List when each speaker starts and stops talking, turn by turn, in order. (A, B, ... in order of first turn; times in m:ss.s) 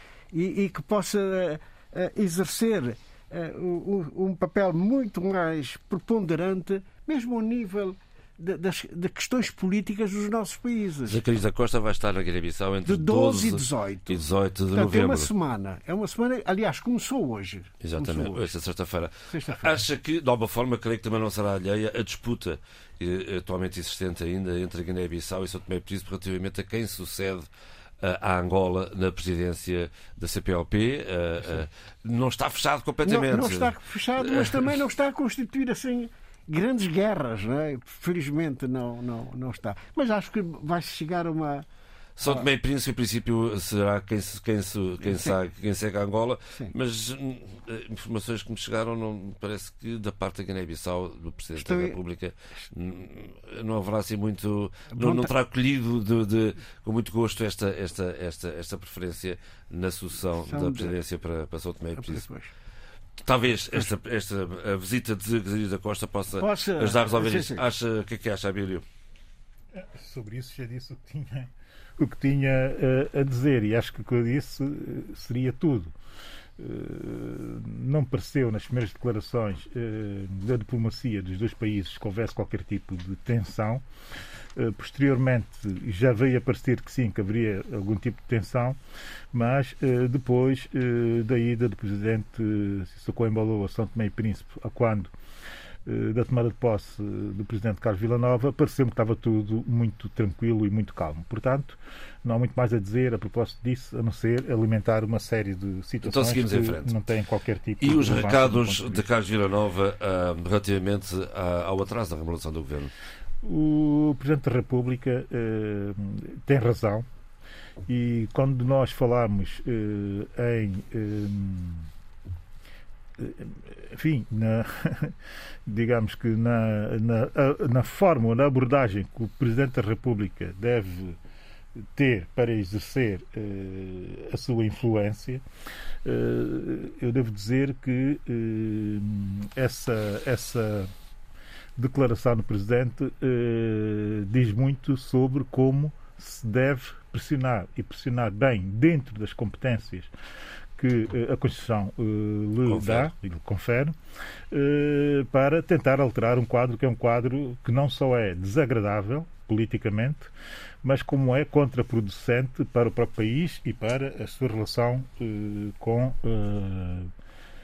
0:00.3-0:11.2 A
0:11.0-0:15.3 B
0:12.8-0:18.5 A
0:17.8-0:27.5 B
0:19.3-0:19.8 A
0:28.0-0:34.8 B
0:33.1-0:41.7 A
0:42.2-1:02.2 B
0:45.0-0:45.3 A
0:51.6-0:52.0 A
0:54.9-0:55.3 A
1:00.4-1:01.0 A
1:02.0-1:02.5 A
1:03.2-1:08.8 B
1:06.4-1:07.7 A
1:09.8-1:15.9 C
1:16.6-1:23.8 C
1:24.6-1:28.8 C
1:29.3-1:35.1 C
1:35.9-1:49.0 C
1:46.0-1:47.0 B
1:47.8-1:52.9 B
1:53.4-1:57.1 C
1:57.9-2:01.9 C
2:03.2-2:11.2 C
2:12.0-2:15.4 C
2:16.0-2:20.9 C
2:21.8-2:30.1 C
2:30.8-2:34.0 C
2:32.7-2:33.1 B
2:34.5-2:40.3 C
2:40.8-2:47.1 C